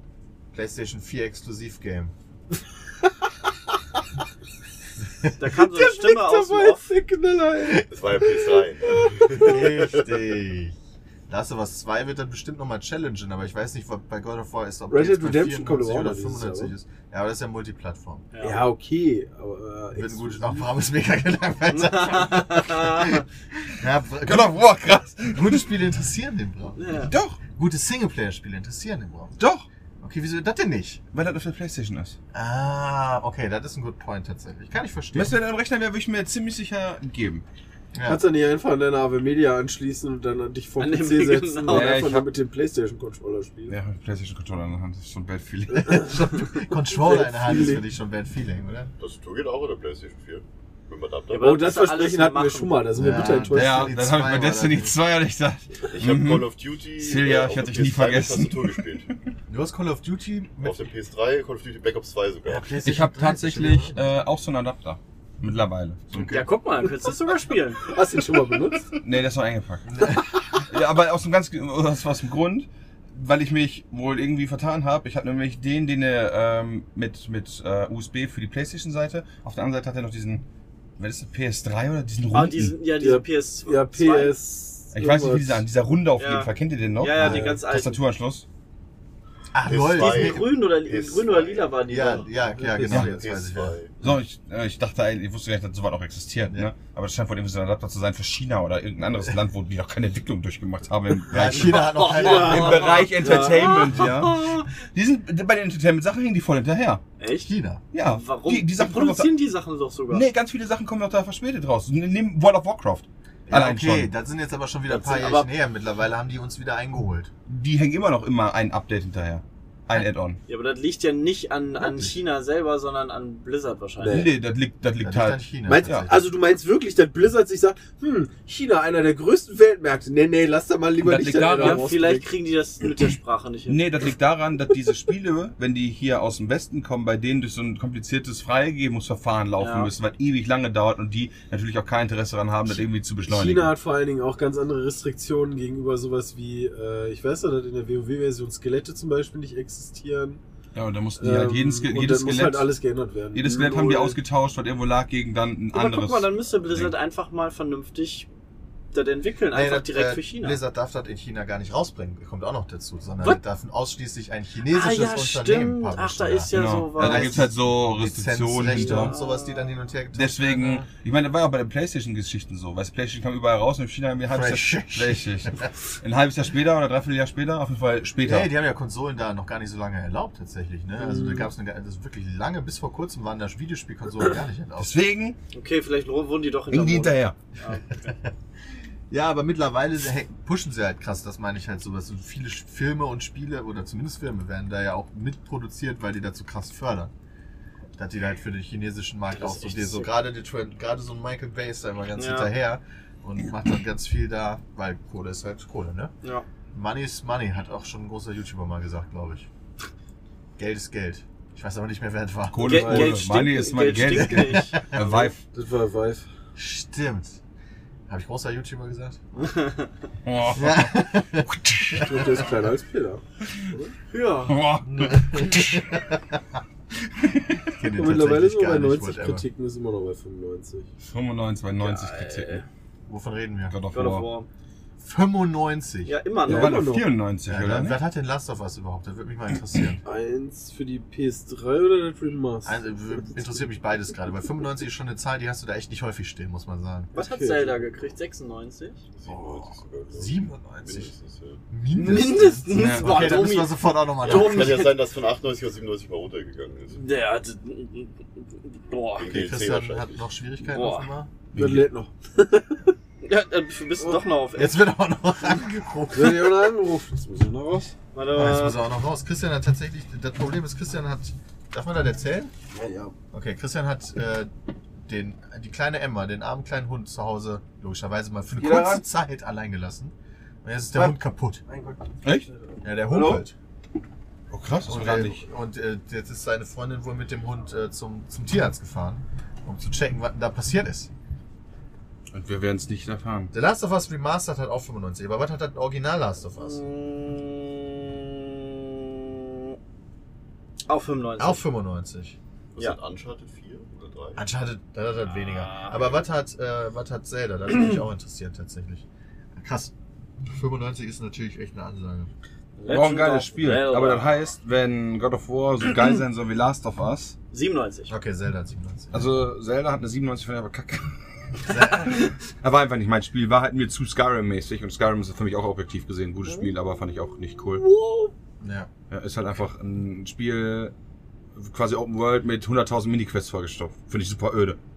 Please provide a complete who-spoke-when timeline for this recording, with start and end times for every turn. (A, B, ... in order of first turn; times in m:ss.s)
0:00.5-0:02.1 A
0:05.4-0:06.9 B
0:05.4-0:08.6 C
0:07.9-0:10.1 D
0:09.3-0:10.8 A
0:11.3-0:18.3 A
0:14.9-0:16.7 C
0:18.3-0:18.6 B
0:18.4-0:20.6 C
0:19.9-0:29.3 A
0:21.8-0:23.2 B
0:24.2-0:25.7 E
0:26.8-0:27.1 B
0:27.1-0:27.4 E
0:29.4-0:29.6 E
0:30.0-0:31.0 A
0:31.1-0:32.2 E
0:32.3-0:35.4 A
0:35.1-0:37.4 E
0:37.9-0:38.2 A
0:38.0-0:43.8 C
0:40.8-0:42.0 B
0:41.7-0:42.3 E
0:43.7-0:46.2 E
0:45.8-0:47.8 C
0:45.9-0:48.9 A
0:49.0-0:51.6 D
0:51.3-0:53.0 B
0:51.4-0:53.9 C
0:52.9-0:55.0 A
0:53.5-0:58.8 E
0:55.9-0:59.1 D
0:59.5-1:00.9 A
1:00.6-1:02.7 D
1:02.4-1:04.1 A
1:02.8-1:06.3 E
1:06.1-1:06.5 A
1:06.2-1:07.8 B
1:07.9-1:08.9 C
1:09.0-1:10.1 E
1:09.9-1:10.2 A
1:10.6-1:20.4 E
1:21.0-1:22.8 E
1:22.3-1:24.4 B
1:23.0-1:25.6 C
1:24.9-1:28.4 E
1:26.2-1:28.0 B
1:27.1-1:27.6 C
1:29.5-1:30.5 A
1:29.6-1:31.9 D
1:29.9-1:32.3 B
1:31.9-1:33.8 A
1:32.5-1:33.0 C
1:32.9-1:33.9 D
1:34.0-1:47.0 E
1:41.3-1:43.0 A
1:41.4-1:44.7 B
1:42.2-1:43.8 C
1:47.2-1:50.2 B
1:47.4-1:47.8 A
1:47.9-1:49.3 E
1:50.1-1:54.1 E
1:53.5-1:57.3 A
1:54.9-1:55.5 B
1:57.5-2:00.4 E
2:00.5-2:04.2 B
2:04.0-2:04.3 C
2:04.1-2:06.1 E
2:05.0-2:06.2 A
2:05.7-2:12.3 C
2:11.0-2:11.9 E
2:11.4-2:13.8 B
2:13.7-2:23.7 E
2:19.6-2:19.9 B
2:23.3-2:30.4 C
2:30.7-2:32.7 E
2:31.2-2:34.2 C
2:33.3-2:36.9 E
2:35.7-2:38.3 B
2:38.9-2:40.6 B
2:39.5-2:50.8 A
2:44.7-2:47.5 B
2:46.5-2:49.1 E
2:48.7-2:49.8 B
2:50.1-2:58.5 E
2:54.3-2:55.7 A
2:58.2-3:05.0 A
3:01.0-3:01.5 C
3:04.8-3:05.4 E
3:05.5-3:08.1 B
3:06.7-3:07.4 E
3:09.1-3:17.1 A
3:18.0-3:26.1 A
3:19.3-3:20.1 B
3:22.2-3:22.5 B
3:26.7-3:29.5 A
3:30.6-3:33.0 A
3:32.5-3:35.4 E
3:32.6-3:35.3 B
3:32.7-3:33.2 C
3:34.0-3:35.0 A
3:35.5-3:36.3 C
3:36.6-3:37.4 A
3:38.1-3:39.2 A
3:39.4-3:39.8 B
3:40.2-3:40.9 E
3:40.5-3:42.2 A
3:41.5-3:42.1 E
3:42.0-3:43.9 C
3:44.1-3:44.6 B
3:44.5-3:45.9 E
3:44.9-3:46.4 A
3:47.2-3:47.6 E
3:47.7-3:49.4 A
3:48.0-3:50.9 C
3:51.0-3:52.6 E
3:51.8-3:52.6 B
3:53.1-3:53.8 A
3:53.7-3:54.3 E
3:53.9-3:54.5 B
3:55.0-3:56.2 A
3:56.0-3:56.9 B
3:56.4-3:57.1 C
3:56.4-3:58.0 E
3:57.4-4:00.0 A
4:00.0-4:03.4 C
4:02.6-4:07.1 A
4:07.1-4:09.0 B
4:07.1-4:07.9 C
4:09.1-4:11.6 D
4:09.3-4:11.1 A
4:11.7-4:14.8 A
4:11.9-4:15.0 B
4:12.7-4:13.4 E
4:14.2-4:17.0 D
4:17.0-4:19.4 B
4:19.2-4:20.2 D
4:19.2-4:21.3 A
4:20.7-4:21.1 B
4:21.5-4:21.9 E
4:21.5-4:22.9 C
4:23.2-4:24.8 B
4:24.5-4:26.7 A
4:26.1-4:27.9 C
4:28.1-4:28.8 B
4:28.3-4:32.5 A
4:32.7-4:33.1 C
4:33.3-4:34.5 A
4:35.0-4:41.6 A
4:38.6-4:39.0 C
4:40.9-4:43.4 C
4:42.8-4:43.5 A
4:44.5-4:45.4 E
4:44.8-4:51.1 A
4:52.3-4:53.5 E
4:53.5-4:56.8 A
4:56.6-4:59.7 B
5:00.9-5:01.6 B
5:01.4-5:02.4 A
5:02.7-5:04.4 D
5:04.4-5:09.9 A
5:05.3-5:06.2 B
5:10.4-5:12.3 A
5:12.8-5:14.4 B
5:12.9-5:17.4 E
5:17.5-5:18.1 B
5:18.1-5:19.3 A
5:19.1-5:27.8 E
5:21.7-5:22.2 A
5:27.7-5:28.3 B
5:28.6-5:28.9 A
5:29.1-5:30.9 E
5:31.5-5:34.8 E